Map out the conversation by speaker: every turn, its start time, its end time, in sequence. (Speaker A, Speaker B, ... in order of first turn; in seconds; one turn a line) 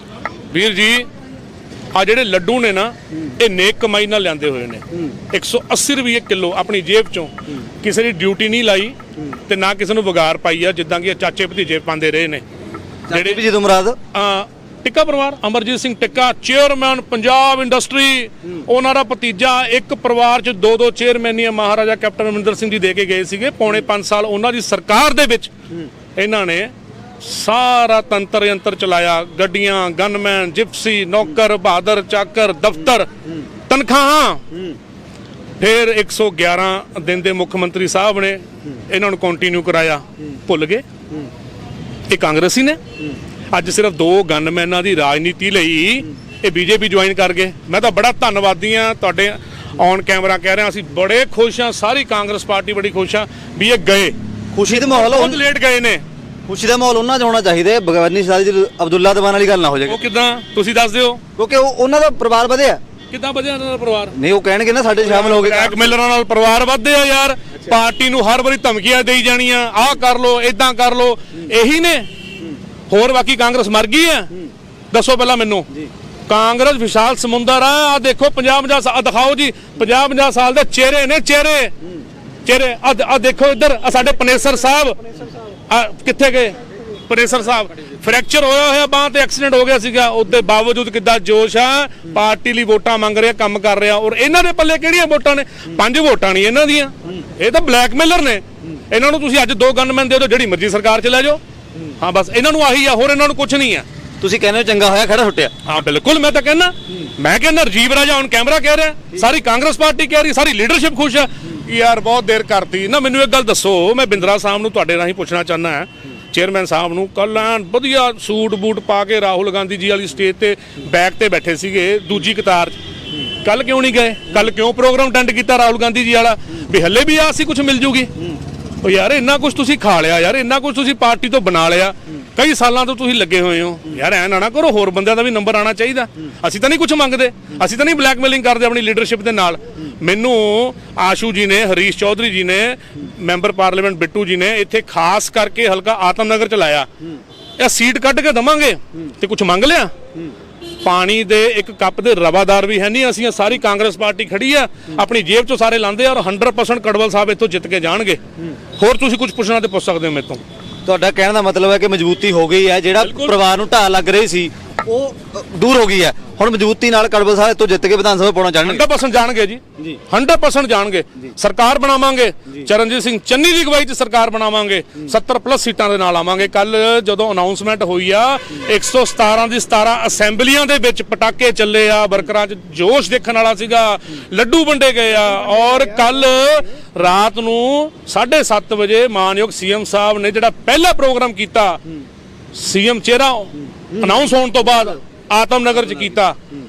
Speaker A: 0.5-1.1
Speaker A: 1.9-8.9
Speaker A: 9.5-12.4
Speaker B: 13.1-14.0
Speaker A: 13.1-13.4
Speaker A: 14.1-25.5
Speaker A: 26.1-33.1
Speaker A: 33.7-34.4
Speaker A: 35.6-40.8
Speaker A: 42.1-42.8
Speaker A: 43.5-54.1
Speaker B: 54.5-55.4
Speaker A: 54.7-56.0
Speaker B: 56.5-60.0
Speaker A: 59.9-61.2
Speaker B: 61.4-62.8
Speaker A: 63.1-64.1
Speaker B: 64.2-65.9
Speaker A: 65.0-72.1
Speaker A: 72.9-74.3
Speaker A: 74.9-75.7
Speaker A: 76.3-81.7
Speaker A: 82.4-85.0
Speaker A: 85.7-101.4
Speaker A: 102.0-103.8
Speaker B: 104.2-105.5
Speaker A: 105.7-122.8
Speaker A: 123.4-128.1
Speaker A: 128.8-146.9
Speaker A: 147.6-149.9
Speaker A: 150.8-158.2
Speaker A: 158.8-160.4
Speaker B: 160.8-168.9
Speaker A: 163.0-163.3
Speaker A: 168.6-191.8
Speaker A: 192.5-196.4